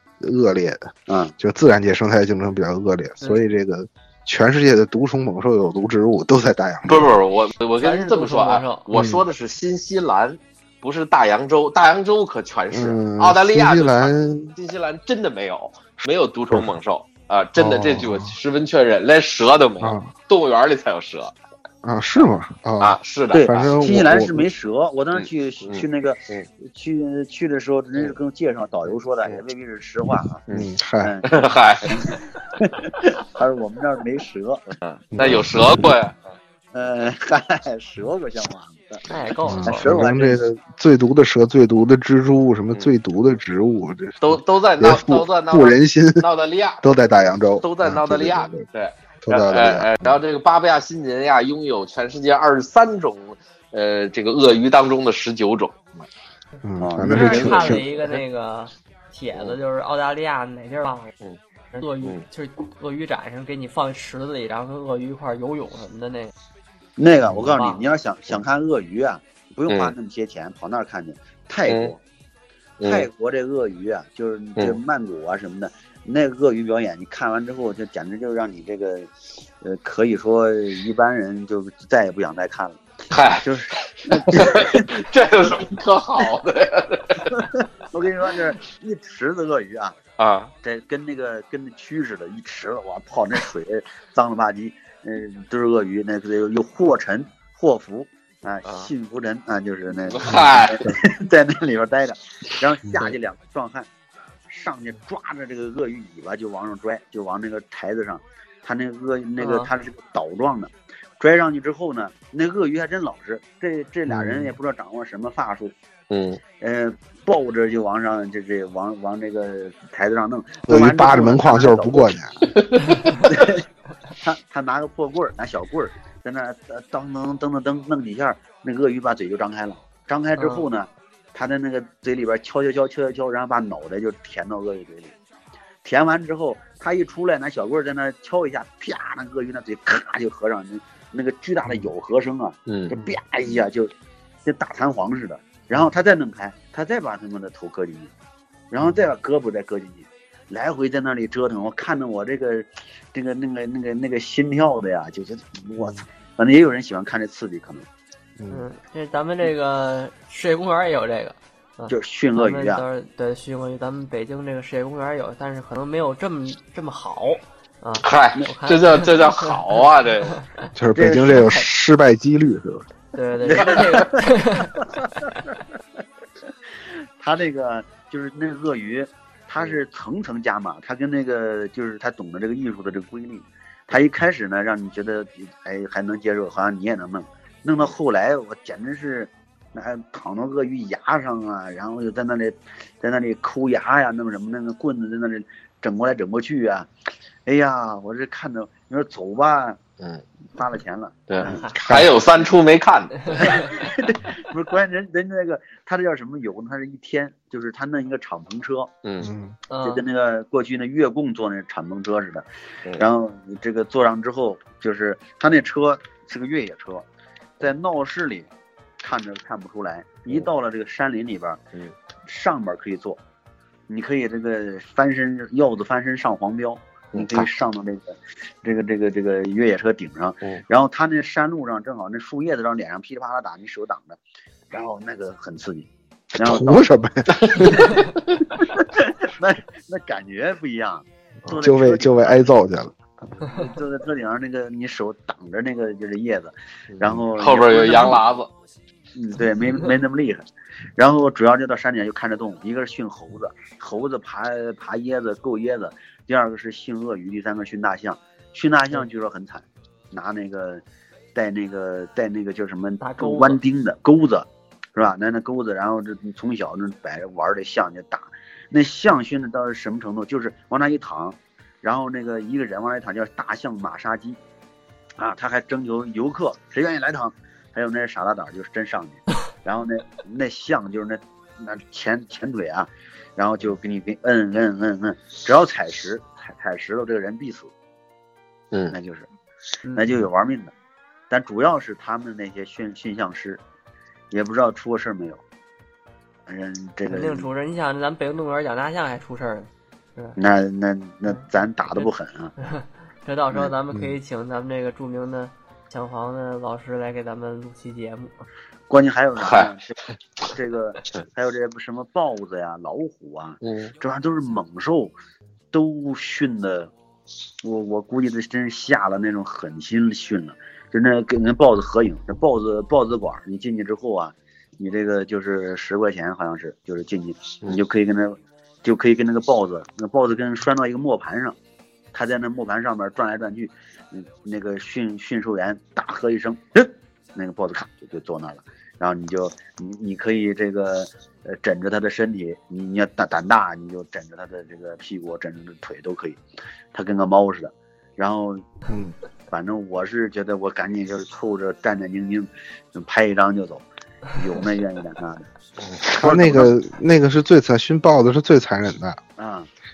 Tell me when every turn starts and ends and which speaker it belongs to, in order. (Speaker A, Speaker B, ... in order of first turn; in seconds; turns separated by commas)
Speaker A: 0.2-7.1, Speaker B: 1.1-1.3, Speaker C: 6.9-21.3, Speaker D: 7.8-8.8, Speaker A: 8.9-9.2, Speaker A: 12.7-14.5, Speaker A: 17.6-18.4, Speaker A: 19.8-20.1, Speaker A: 21.8-24.4, Speaker C: 22.8-23.7, Speaker B: 23.3-30.4, Speaker C: 25.1-26.5, Speaker A: 30.5-31.1, Speaker B: 31.0-31.3, Speaker C: 31.3-32.2, Speaker B: 31.8-35.4, Speaker C: 34.8-36.4, Speaker A: 35.1-35.9, Speaker B: 36.7-39.0, Speaker D: 39.1-39.9, Speaker A: 39.4-46.2, Speaker B: 39.6-40.4, Speaker C: 44.2-47.0, Speaker A: 46.8-48.6, Speaker C: 47.6-56.1, Speaker A: 49.2-50.2, Speaker A: 56.6-57.9, Speaker B: 56.8-57.9, Speaker D: 57.0-61.1, Speaker D: 61.7-66.3, Speaker B: 67.0-72.0, Speaker D: 67.5-67.8, Speaker C: 69.7-69.9, Speaker C: 72.8-73.0, Speaker B: 72.8-85.0, Speaker C: 83.1-87.3, Speaker B: 87.2-90.0, Speaker C: 90.2-90.5, Speaker B: 90.6-103.9, Speaker C: 98.6-98.9, Speaker C: 100.0-100.9, Speaker B: 104.5-115.7, Speaker D: 109.4-109.7, Speaker A: 114.1-114.5, Speaker C: 116.1-116.4, Speaker B: 116.6-122.2, Speaker A: 120.7-122.5, Speaker C: 122.5-123.0, Speaker B: 123.2-123.6, Speaker B: 124.2-135.1, Speaker D: 130.4-130.6, Speaker B: 135.8-143.9, Speaker C: 142.7-142.9, Speaker B: 144.4-148.1, Speaker B: 148.7-157.8, Speaker A: 158.4-158.7, Speaker D: 158.5-169.6, Speaker B: 161.9-162.8, Speaker C: 168.0-170.4, Speaker A: 170.7-172.8, Speaker B: 170.9-171.6, Speaker D: 171.3-171.6, Speaker D: 173.1-174.7, Speaker B: 173.4-175.3, Speaker B: 176.8-196.9, Speaker B: 197.4-199.8, Speaker B: 200.5-201.7, Speaker C: 201.3-203.7, Speaker A: 201.7-202.1, Speaker B: 203.3-208.9, Speaker C: 209.0-209.3, Speaker A: 209.2-209.6, Speaker D: 209.7-210.0, Speaker B: 209.8-217.1, Speaker B: 217.6-218.5, Speaker B: 219.0-221.6, Speaker B: 222.2-223.2, Speaker B: 223.9-234.2, Speaker C: 227.1-227.4, Speaker B: 234.7-236.9, Speaker A: 236.3-238.0, Speaker C: 237.3-238.1, Speaker B: 238.6-242.5, Speaker A: 241.5-242.9, Speaker B: 243.3-248.2, Speaker C: 246.9-248.5, Speaker B: 249.1-250.4, Speaker B: 251.0-260.8, Speaker B: 261.3-274.4, Speaker D: 263.0-263.6, Speaker B: 275.2-287.7, Speaker B: 288.9-289.3, Speaker B: 289.9-290.7, Speaker B: 291.3-293.6, Speaker B: 294.3-295.4, Speaker B: 296.5-297.5, Speaker D: 297.1-300.4, Speaker B: 300.4-302.5, Speaker D: 302.6-308.4, Speaker B: 308.9-315.1, Speaker C: 309.4-309.7, Speaker C: 313.6-313.9, Speaker B: 315.7-316.9, Speaker B: 317.6-331.6, Speaker B: 332.1-346.4, Speaker B: 346.9-348.6, Speaker A: 348.9-349.1, Speaker B: 349.5-355.4, Speaker C: 355.8-356.1, Speaker A: 356.1-359.2, Speaker B: 356.1-356.8, Speaker B: 359.4-359.7